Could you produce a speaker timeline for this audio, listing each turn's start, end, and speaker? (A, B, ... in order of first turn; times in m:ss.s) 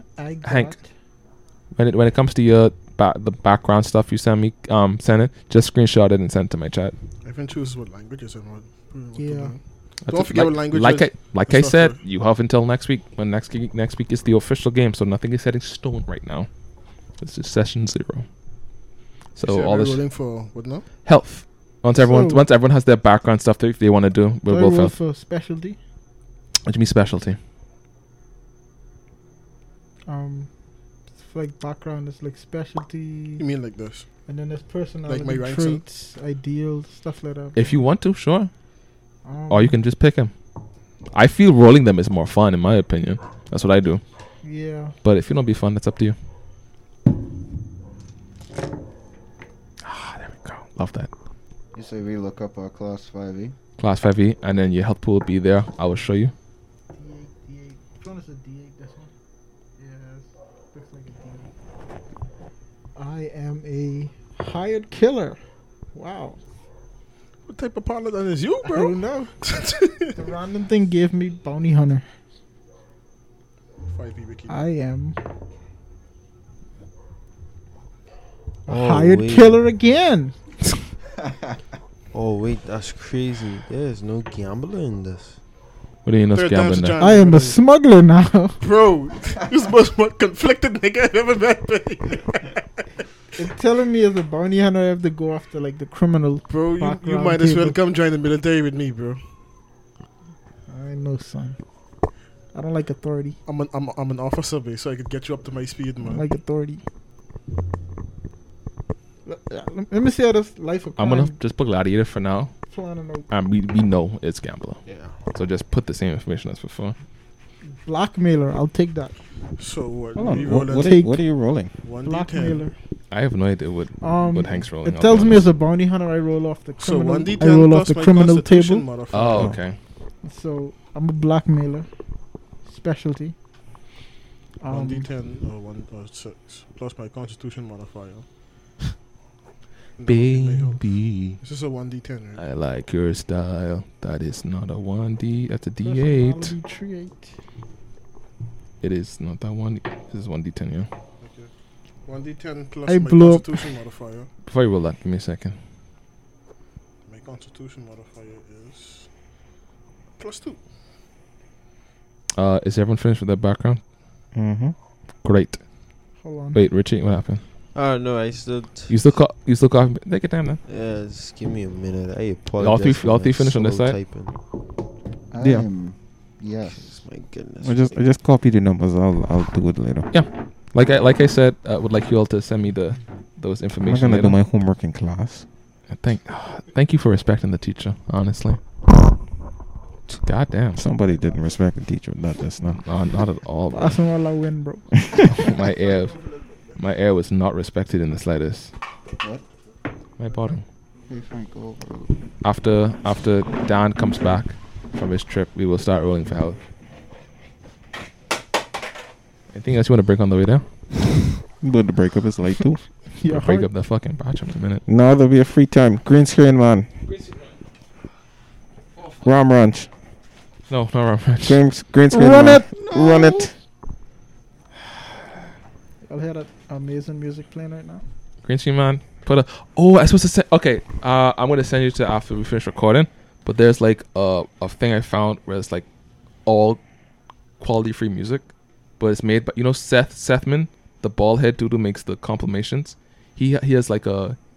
0:00.2-0:00.9 A
0:00.4-0:00.8 B
0:01.7-0:06.9 B
0:07.2-0:12.0 C
0:09.2-0:09.6 A
0:10.0-0:16.5 B
0:17.2-0:18.3 B
0:19.3-0:20.0 B
0:19.4-0:20.9 C
0:21.0-0:25.0 B
0:21.9-0:22.4 A
0:24.5-0:25.8 A
0:26.6-0:27.4 B
0:30.1-0:30.5 A
0:31.2-0:33.4 A
0:33.4-0:34.1 C
0:34.3-0:37.8 A
0:35.1-0:35.8 C
0:37.6-0:38.5 B
0:39.2-0:39.8 A
0:39.5-0:40.3 B
0:41.1-0:44.0 B
0:44.4-0:44.9 A
0:45.0-0:46.2 B
0:49.8-0:51.1 B
0:51.7-0:53.6 D
0:53.8-0:56.3 B
0:56.9-0:59.1 A
0:59.8-1:01.5 A
1:03.0-1:05.4 A
1:05.9-1:06.4 A
1:07.5-1:10.2 C
1:08.6-1:09.3 A
1:10.2-1:12.0 A
1:13.9-1:14.6 C
1:14.5-1:15.2 A
1:18.6-1:20.3 A
1:18.7-1:19.6 E
1:22.1-1:25.4 E
1:26.0-1:27.0 B
1:26.3-1:27.6 C
1:27.0-1:28.6 A
1:28.6-1:32.6 C
1:33.4-1:37.8 A
1:36.5-1:39.2 C
1:40.7-1:41.6 A
1:42.5-1:43.4 A
1:43.4-1:46.2 C
1:46.0-1:46.8 A
1:49.3-1:51.4 A
1:51.0-1:52.5 B
1:52.7-1:53.3 A
1:53.3-1:57.0 B
1:54.8-1:55.2 E
1:57.8-1:59.1 A
1:59.6-2:01.0 C
2:00.2-2:01.7 F
2:00.7-2:01.2 A
2:01.8-2:02.7 C
2:02.0-2:02.7 A
2:03.1-2:05.5 B
2:04.0-2:08.8 A
2:06.8-2:09.6 C
2:09.1-2:09.8 B
2:10.2-2:11.9 A
2:12.6-2:13.3 A
2:14.6-2:15.1 A
2:14.7-2:18.2 C
2:20.0-2:22.4 C
2:20.0-2:21.4 B
2:22.4-2:26.6 B
2:25.8-2:27.3 A
2:28.8-2:30.9 B
2:31.2-2:31.5 C
2:32.0-2:34.3 C
2:32.9-2:33.7 A
2:34.4-2:35.6 B
2:37.1-2:39.1 C
2:40.2-2:40.6 C
2:42.4-2:43.8 B
2:44.3-2:44.7 F
2:45.2-2:45.6 B
2:46.2-2:46.6 A
2:46.5-2:47.4 B
2:47.7-2:49.0 E
2:48.9-2:50.6 B
2:50.7-2:54.4 E
2:52.6-2:54.0 B
2:55.3-2:57.0 D
2:55.4-2:55.7 F
2:56.7-2:58.0 E
2:57.6-3:00.1 F
3:00.1-3:04.4 B
3:03.8-3:05.4 F
3:05.9-3:08.6 B
3:10.2-3:10.8 B
3:10.8-3:12.8 F
3:12.8-3:14.0 B
3:13.7-3:15.5 A
3:15.3-3:16.2 B
3:16.7-3:18.7 B
3:19.2-3:19.4 D
3:20.2-3:20.6 B
3:21.1-3:22.2 D
3:22.4-3:26.6 B
3:29.5-3:30.7 B
3:31.6-3:32.8 F
3:33.2-3:33.7 A
3:33.3-3:34.8 B
3:34.8-3:36.9 F
3:39.1-3:39.9 F
3:40.7-3:41.6 B
3:41.4-3:43.5 F
3:42.1-3:42.6 A
3:42.7-3:43.5 D
3:46.0-3:48.0 A
3:48.4-3:55.8 B
3:56.4-3:56.8 B
3:57.6-4:04.4 B